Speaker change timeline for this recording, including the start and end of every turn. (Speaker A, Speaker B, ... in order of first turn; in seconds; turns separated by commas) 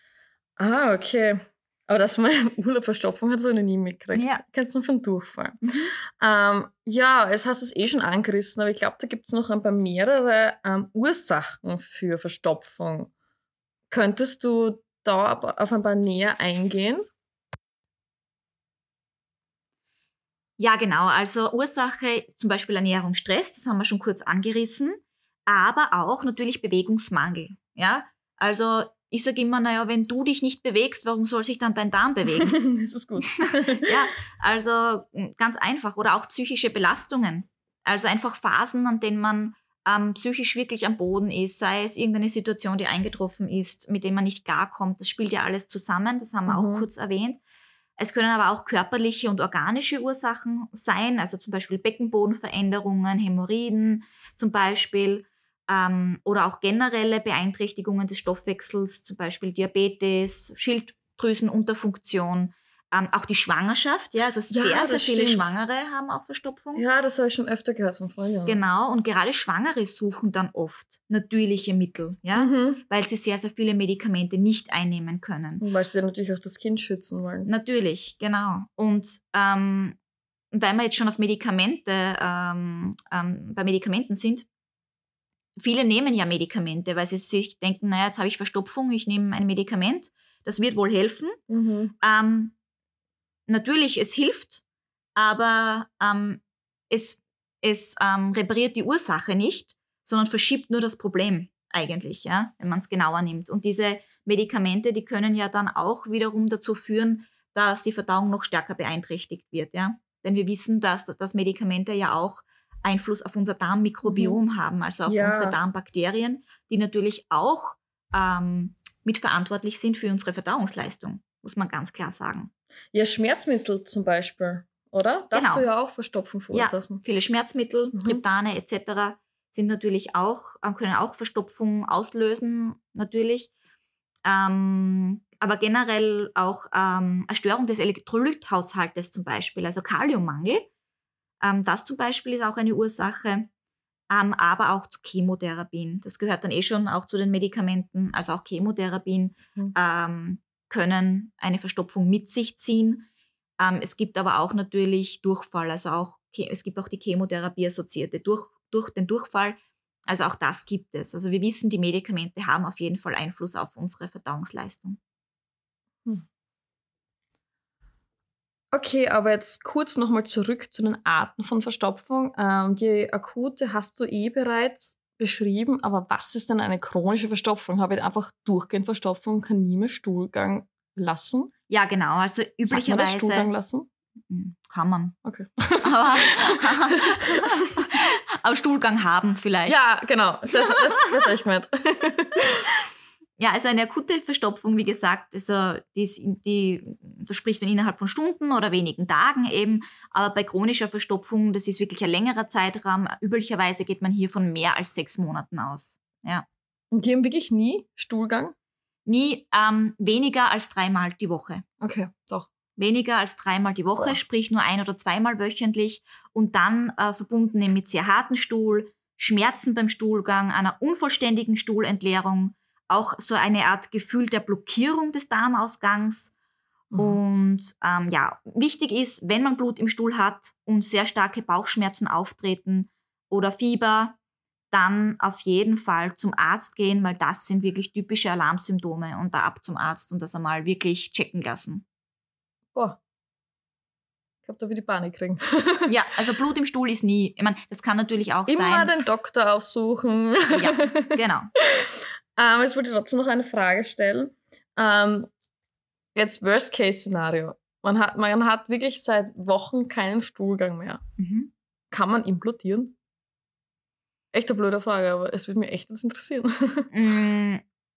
Speaker A: 0.6-13.1, Speaker B: 4.1-4.4, Speaker B: 5.6-5.9, Speaker A: 13.9-17.1, Speaker B: 20.6-32.6, Speaker A: 32.4-33.9, Speaker B: 33.5-47.4, Speaker A: 46.5-46.9, Speaker B: 48.0-66.8, Speaker A: 64.5-65.5, Speaker A: 66.8-68.6, Speaker B: 68.5-75.6, Speaker A: 72.3-72.8, Speaker A: 75.6-77.5, Speaker B: 77.5-80.0, Speaker B: 80.5-84.5, Speaker B: 85.6-91.4, Speaker A: 91.5-91.9, Speaker B: 92.0-92.5, Speaker B: 93.5-94.6, Speaker B: 95.2-122.5, Speaker A: 114.0-114.4, Speaker A: 115.1-115.6, Speaker A: 122.9-127.0, Speaker B: 125.3-125.7, Speaker B: 126.5-133.5, Speaker A: 127.9-128.2, Speaker B: 134.2-140.7, Speaker B: 141.4-143.5, Speaker B: 144.1-153.1, Speaker B: 153.6-165.0, Speaker A: 168.7-181.5, Speaker B: 181.7-183.5, Speaker A: 182.7-183.9, Speaker B: 184.3-185.2, Speaker A: 185.2-187.3, Speaker B: 185.8-189.8, Speaker A: 189.7-192.7, Speaker B: 190.7-191.2, Speaker B: 193.4-206.5, Speaker A: 206.9-208.5, Speaker B: 209.1-211.7, Speaker A: 211.8-212.5, Speaker B: 212.8-226.3, Speaker A: 226.9-227.2, Speaker B: 226.9-234.2, Speaker B: 234.7-241.8, Speaker A: 242.7-243.0, Speaker A: 244.4-245.9, Speaker B: 245.9-248.9, Speaker A: 248.5-255.3, Speaker B: 250.5-251.5, Speaker A: 256.1-261.0, Speaker B: 261.2-261.5, Speaker A: 261.9-263.0, Speaker A: 264.3-266.9, Speaker B: 266.9-267.6